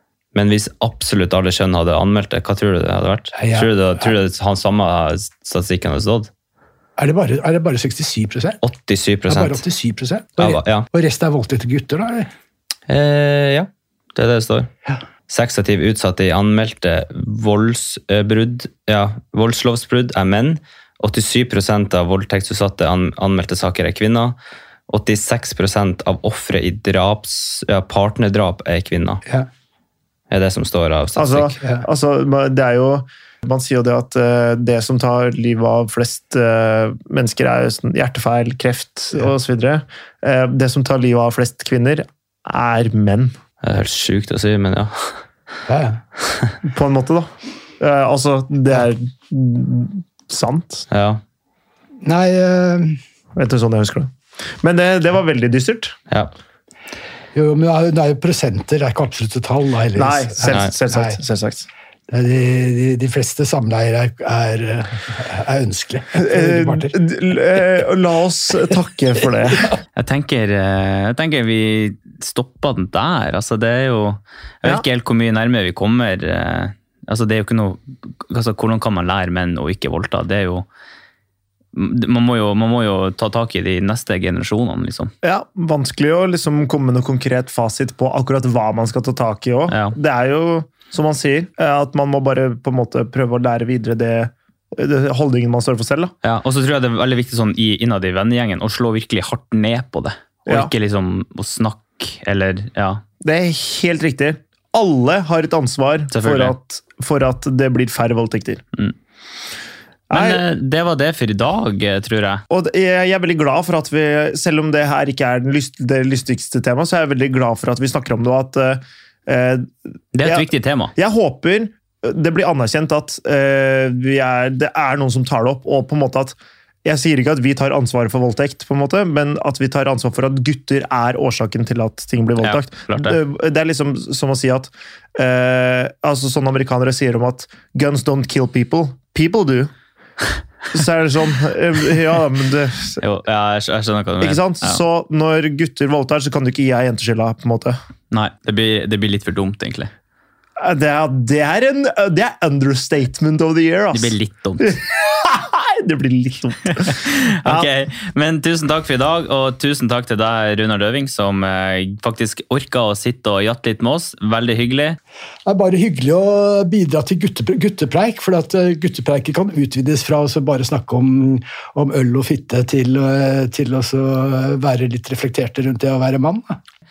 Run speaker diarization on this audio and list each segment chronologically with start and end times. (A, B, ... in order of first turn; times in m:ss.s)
0:00.3-0:06.3 A
0:03.3-0:04.1 B
0:07.0-0:08.6 B
0:08.6-0:09.6 A
0:09.3-0:12.3 B
0:10.4-0:10.9 A
0:12.9-0:14.7 A
0:15.3-0:24.4 A
0:24.9-0:29.2 A
0:30.3-0:31.6 A
0:31.2-0:43.4 C
0:31.6-0:31.8 B
0:43.6-0:45.2 A
0:45.7-0:46.0 B
0:46.7-0:50.8 C
0:50.9-0:51.2 A
0:52.0-0:53.0 B
0:53.3-0:56.0 C
0:57.3-1:01.2 B
0:59.9-1:01.7 C
1:02.1-1:06.9 B
1:06.2-1:09.6 C
1:10.0-1:20.6 A
1:21.7-1:25.1 A
1:25.2-1:36.1 C
1:29.7-1:30.0 A
1:36.2-1:43.0 A
1:40.5-1:40.7 C
1:43.2-1:48.6 C
1:46.1-1:46.5 A
1:50.1-1:50.5 C
1:50.1-1:52.4 A
1:52.5-2:19.7 C
2:00.1-2:00.9 A
2:12.4-2:13.2 A
2:20.7-2:23.0 C
2:23.0-2:24.8 A
2:24.2-2:27.8 C
2:28.1-2:29.9 A
2:30.6-2:37.7 C
2:33.9-2:34.7 A
2:36.6-2:45.0 A
2:45.4-2:56.6 B